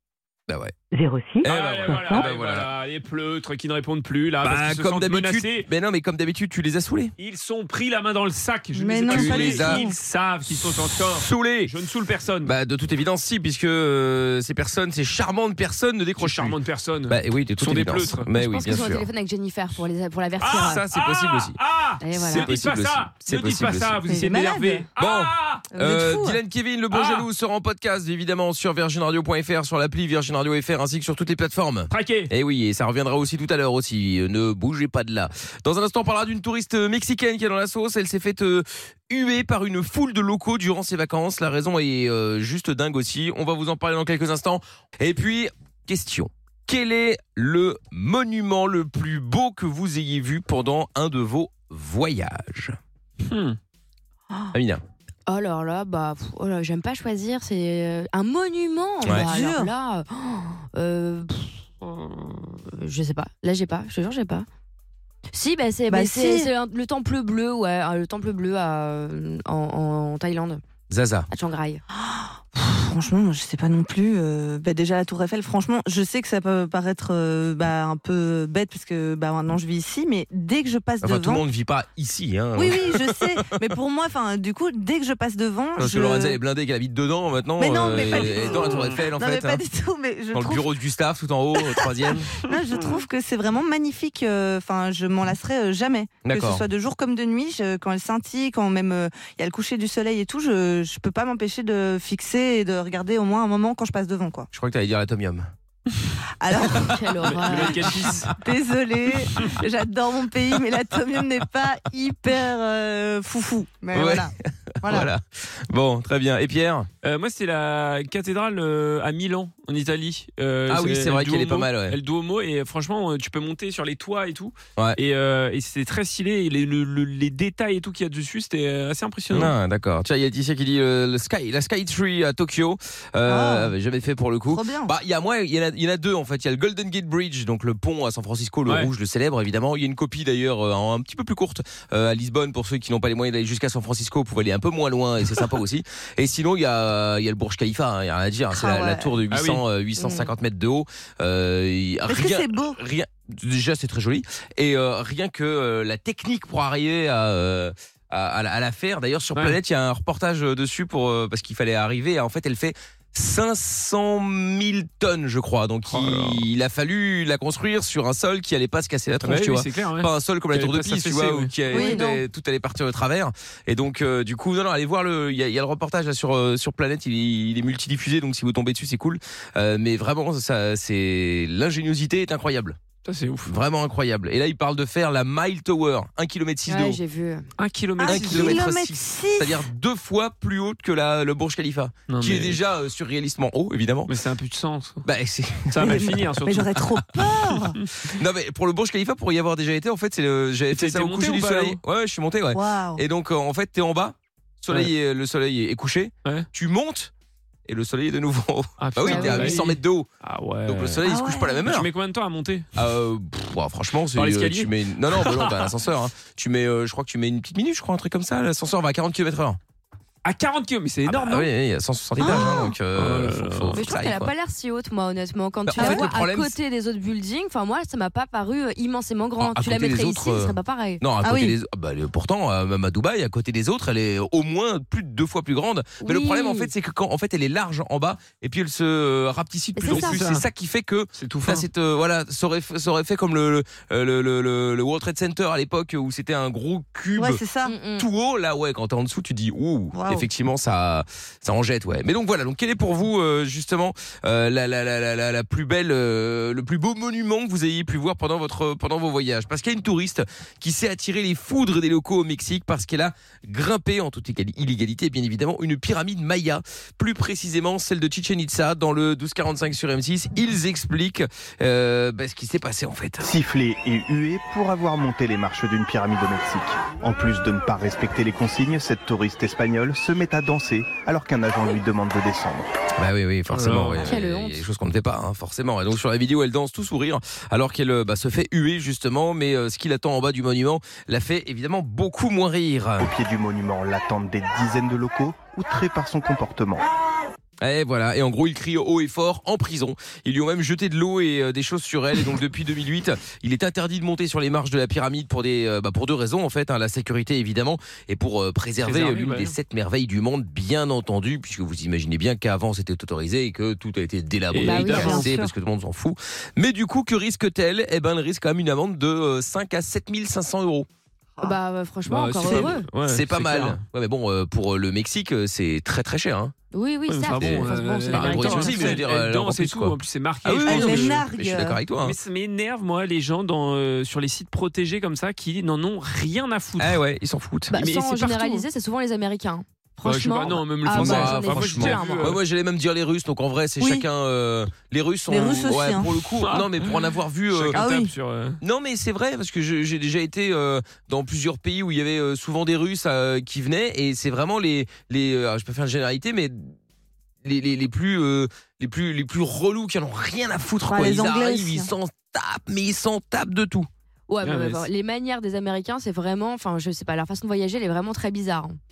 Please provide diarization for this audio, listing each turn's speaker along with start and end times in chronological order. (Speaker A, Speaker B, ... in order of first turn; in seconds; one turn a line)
Speaker A: 0.5-0.7
Speaker B: 1.0-1.4
Speaker A: 1.4-2.7
Speaker C: 1.4-5.7
Speaker A: 4.4-7.1
Speaker C: 7.2-12.5
Speaker B: 8.7-10.0
Speaker A: 9.1-9.9
Speaker A: 10.6-11.7
Speaker A: 12.4-16.6
Speaker C: 16.2-18.3
Speaker A: 17.1-19.1
Speaker D: 18.4-20.8
Speaker C: 20.4-25.7
Speaker A: 20.5-21.6
Speaker D: 22.0-22.5
Speaker A: 22.1-24.1
Speaker B: 24.1-24.9
Speaker A: 25.0-52.8
Speaker B: 25.7-26.4
Speaker C: 26.9-27.3
Speaker C: 31.9-32.3
Speaker C: 53.2-53.6
Speaker A: 54.5-54.8
Speaker D: 55.3-64.5
Speaker B: 59.1-59.7
Speaker D: 65.3-70.6
Speaker B: 65.9-66.5
Speaker A: 70.9-71.3
Speaker D: 71.3-71.8
Speaker B: 71.9-81.5
Speaker A: 81.0-83.3
Speaker B: 82.6-86.4
Speaker A: 85.8-89.6
Speaker B: 87.6-90.7
Speaker A: 90.3-92.3
Speaker B: 91.7-104.5
Speaker A: 96.2-96.7
Speaker A: 104.5-105.5
Speaker B: 106.4-107.0
Speaker D: 106.7-108.1
Speaker C: 107.2-108.3
Speaker B: 108.4-115.1
Speaker A: 113.9-114.3
Speaker A: 114.8-116.9
Speaker C: 117.0-129.5
Speaker A: 120.7-122.0
Speaker A: 129.3-182.8
Speaker B: 133.3-133.7
Speaker B: 134.5-134.9
Speaker B: 148.5-149.2
Speaker C: 149.3-149.6
Speaker D: 150.0-150.3
Speaker B: 152.1-152.8
Speaker C: 165.9-166.4
Speaker C: 169.2-171.6
Speaker B: 171.7-172.2
Speaker C: 183.1-183.5
Speaker A: 183.5-187.0
Speaker D: 186.7-187.5
Speaker C: 187.6-188.7
Speaker B: 188.0-189.6
Speaker A: 188.1-194.1
Speaker C: 192.1-192.6
Speaker C: 194.1-195.0
Speaker A: 195.0-196.0
Speaker C: 195.7-196.7
Speaker B: 195.8-197.8
Speaker A: 198.1-207.1
Speaker C: 200.7-201.8
Speaker B: 202.5-203.0
Speaker A: 207.7-210.1
Speaker C: 208.8-211.0
Speaker D: 209.1-209.6
Speaker A: 210.7-211.9
Speaker B: 211.1-211.6
Speaker C: 211.6-212.7
Speaker A: 212.8-219.6
Speaker C: 214.2-215.7
Speaker C: 220.2-221.5
Speaker A: 221.1-224.3
Speaker B: 222.2-222.7
Speaker C: 222.4-223.8
Speaker D: 223.7-231.0
Speaker A: 225.7-226.6
Speaker B: 225.8-226.1
Speaker A: 229.4-247.4
Speaker B: 231.2-231.6
Speaker D: 236.0-236.7
Speaker D: 239.8-240.2
Speaker C: 239.9-240.4
Speaker C: 241.2-241.7
Speaker B: 247.2-247.8
Speaker D: 247.7-248.1
Speaker A: 248.0-273.3
Speaker B: 249.9-250.3
Speaker E: 273.2-282.7
Speaker A: 283.0-293.1
Speaker C: 283.5-284.1
Speaker D: 284.0-284.6
Speaker E: 293.0-296.9
Speaker A: 297.6-320.9
Speaker C: 308.8-309.5
Speaker C: 314.5-315.3
Speaker D: 314.6-315.3
Speaker D: 321.4-322.9
Speaker C: 322.1-323.8
Speaker A: 323.0-326.5
Speaker D: 326.7-329.0
Speaker C: 327.1-331.2
Speaker A: 327.4-332.2
Speaker B: 330.6-331.8
Speaker C: 332.0-337.0
Speaker A: 336.8-337.8
Speaker D: 337.7-342.4
Speaker C: 337.7-338.6
Speaker C: 340.0-342.4
Speaker A: 340.9-347.8
Speaker B: 343.8-344.1
Speaker B: 345.3-346.1
Speaker C: 346.4-348.6
Speaker B: 347.8-348.1
Speaker A: 348.6-356.8
Speaker A: 357.4-363.9
Speaker B: 360.9-361.9
Speaker D: 364.3-368.8
Speaker C: 364.4-364.9